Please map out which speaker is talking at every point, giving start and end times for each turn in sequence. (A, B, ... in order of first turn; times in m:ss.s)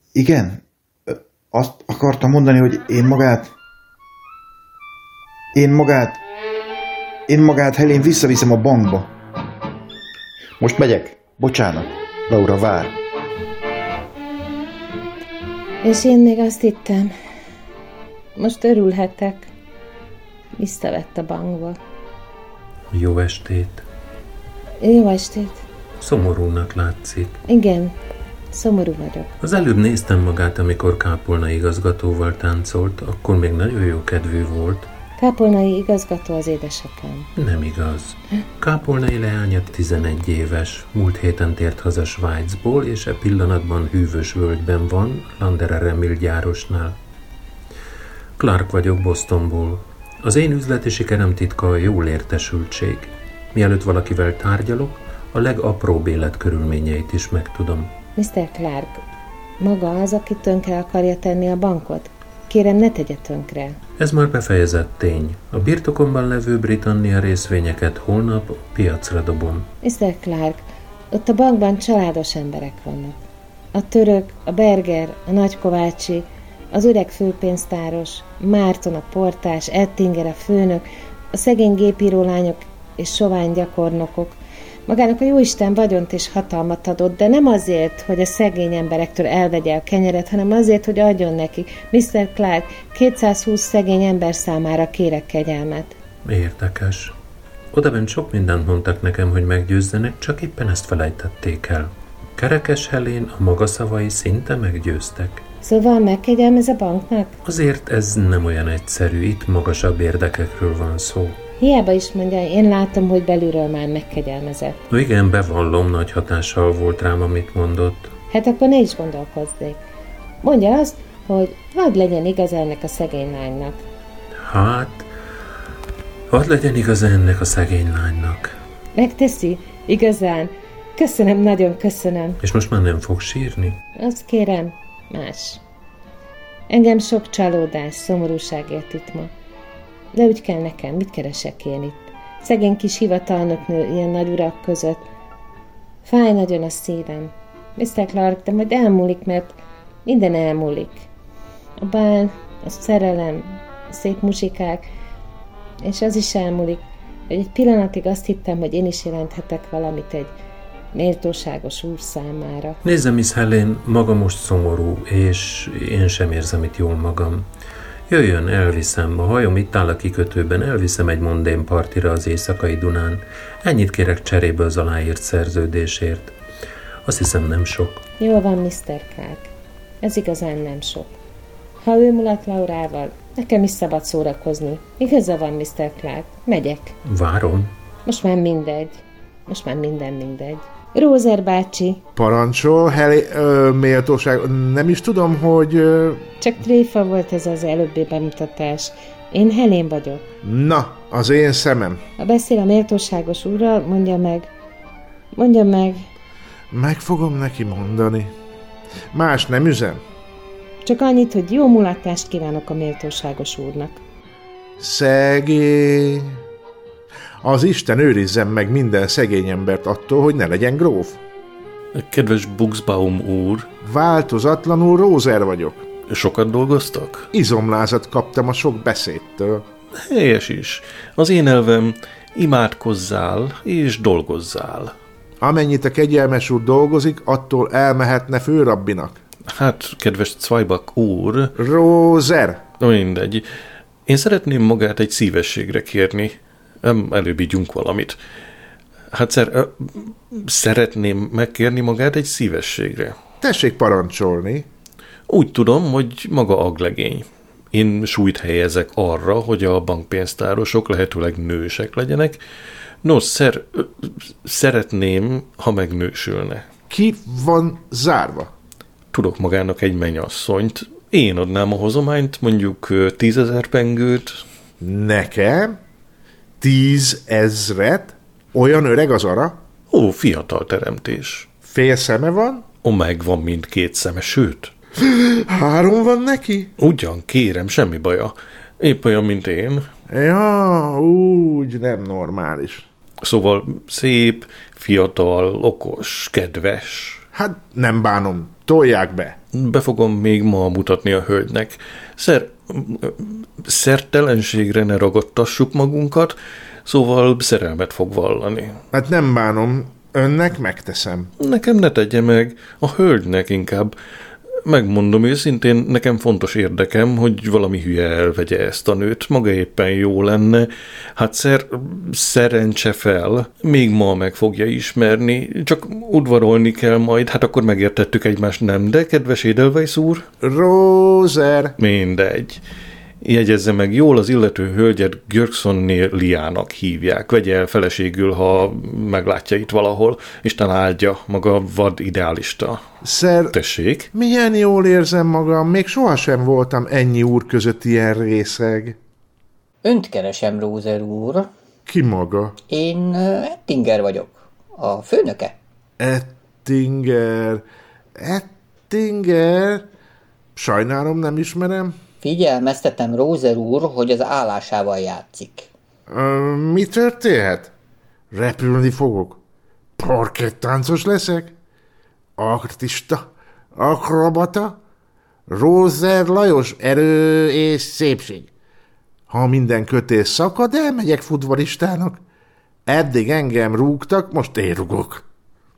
0:00.1-0:03.5 A
0:05.5-0:06.2 A
0:07.3-0:09.1 A
0:10.6-0:13.0 A
0:15.8-0:17.1 B
0:18.4-0:19.5 B
0:20.6-0:21.8 B
0:22.9-0:23.8 C
0:24.8-0:25.6 B
0:26.0-0:27.4 C
0:27.5-0:27.9 B
0:28.5-0:29.3 B
0:29.4-0:34.9 C
0:35.2-0:37.3 B
0:37.4-0:47.0 C
0:48.4-0:57.9 C
0:58.2-0:59.0 B
0:59.6-1:03.8 B
1:04.0-1:09.7 C
1:09.8-1:13.2 B
1:13.7-1:35.9 B
1:36.2-1:37.1 C
1:37.7-1:45.4 C
1:45.6-1:47.3 B
1:47.4-1:51.4 C
1:51.6-1:54.8 B
1:54.9-1:58.1 C
1:58.3-1:59.8 B
2:00.4-2:03.8 B
2:04.4-2:05.1 C
2:06.3-2:08.5 C
2:08.9-2:12.4 B
2:12.4-2:13.8 C
2:14.0-2:15.6 B
2:16.7-2:19.3 B
2:20.1-2:25.0 B
2:26.0-2:31.1 B
2:31.8-2:34.8 B
2:35.8-2:40.3 B
2:40.9-2:42.8 B
2:42.8-2:47.4 C
2:48.1-2:56.3 C
2:57.0-2:58.0 C
2:58.2-2:59.5 B
3:00.0-3:01.1 B
3:01.8-3:06.9 B
3:07.0-3:07.7 C
3:08.0-3:12.0 B
3:12.2-3:16.2 D
3:16.4-3:20.2 B
3:20.4-3:22.0 D
3:22.2-3:24.5 B
3:25.3-3:26.1 B
3:26.7-3:28.3 D
3:29.1-3:30.0 D
3:30.8-3:34.0 B
3:34.8-3:36.4 D
3:37.4-3:41.2 D
3:41.9-3:43.7 E
3:43.8-3:45.8 D
3:46.1-3:47.3 E
3:47.3-3:49.6 D
3:50.0-3:54.9 E
3:55.4-3:59.2 D
3:59.5-4:01.5 E
4:01.6-4:02.6 D
4:02.8-4:03.5 E
4:04.0-4:08.2 E
4:09.1-4:13.2 E
4:13.4-4:14.7 D
4:15.3-4:22.4 E
4:23.0-4:26.6 E
4:26.9-4:28.5 D
4:29.1-4:34.4 E
4:34.8-4:35.8 D
4:36.6-4:39.6 D
4:39.9-4:41.5 E
4:41.6-4:42.6 D
4:42.8-4:44.7 E
4:45.0-4:46.7 D
4:46.8-4:49.9 E
4:50.1-4:52.8 D
4:53.2-4:57.2 E
4:57.3-4:59.4 D
4:59.5-5:08.8 E
5:08.9-5:11.3 D
5:11.4-5:14.0 E
5:14.6-5:30.3 E
5:30.4-5:31.7 D
5:31.8-5:32.6 E
5:33.2-5:42.8 E
5:43.0-5:43.5 D
5:43.5-5:44.1 E
5:44.1-5:49.0 D
5:49.8-5:51.5 F
5:51.9-5:52.6 D
5:52.7-5:55.5 F
5:56.0-5:57.6 D
5:58.2-5:59.8 D
6:00.6-6:01.9 D
6:02.2-6:05.7 F
6:06.1-6:07.7 D
6:08.3-6:09.4 D
6:10.0-6:11.5 D
6:12.4-6:13.2 D
6:13.8-6:14.8 D
6:15.5-6:18.5 D
6:19.3-6:22.2 D
6:22.8-6:25.2 D